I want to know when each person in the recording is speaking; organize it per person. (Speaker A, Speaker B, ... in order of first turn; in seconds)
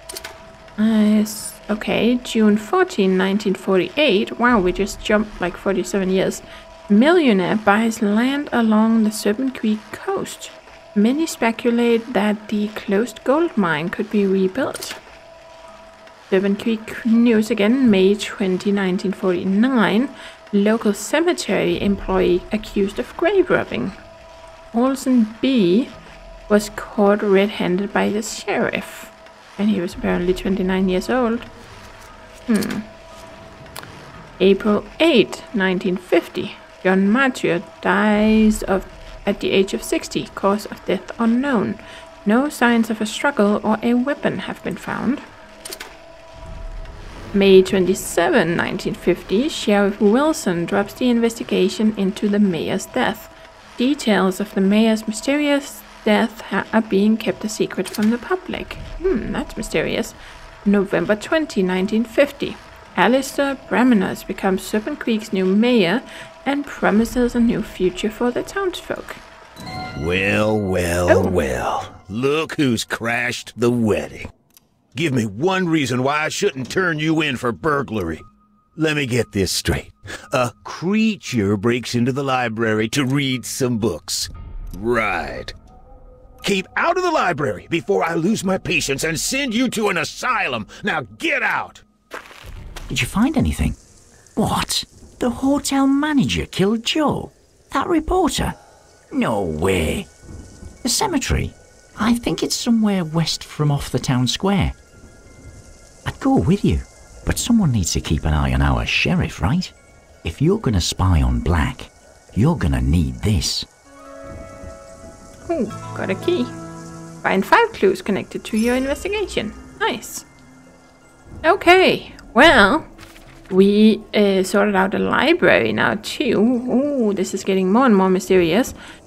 Speaker A: 0.8-15.0, 16.3-24.0, 24.7-25.9, 26.5-31.5, 32.5-32.9, 34.4-45.2, 47.3-69.2, 71.1-71.4, 115.5-116.5, 117.2-120.3, 121.4-122.9, 123.5-128.7
Speaker B: 70.0-74.3, 75.0-78.2, 78.8-85.5, 86.4-91.8
Speaker C: 92.9-93.8, 94.4-98.6, 99.1-100.1, 100.8-104.7, 106.1-109.7, 110.2-113.7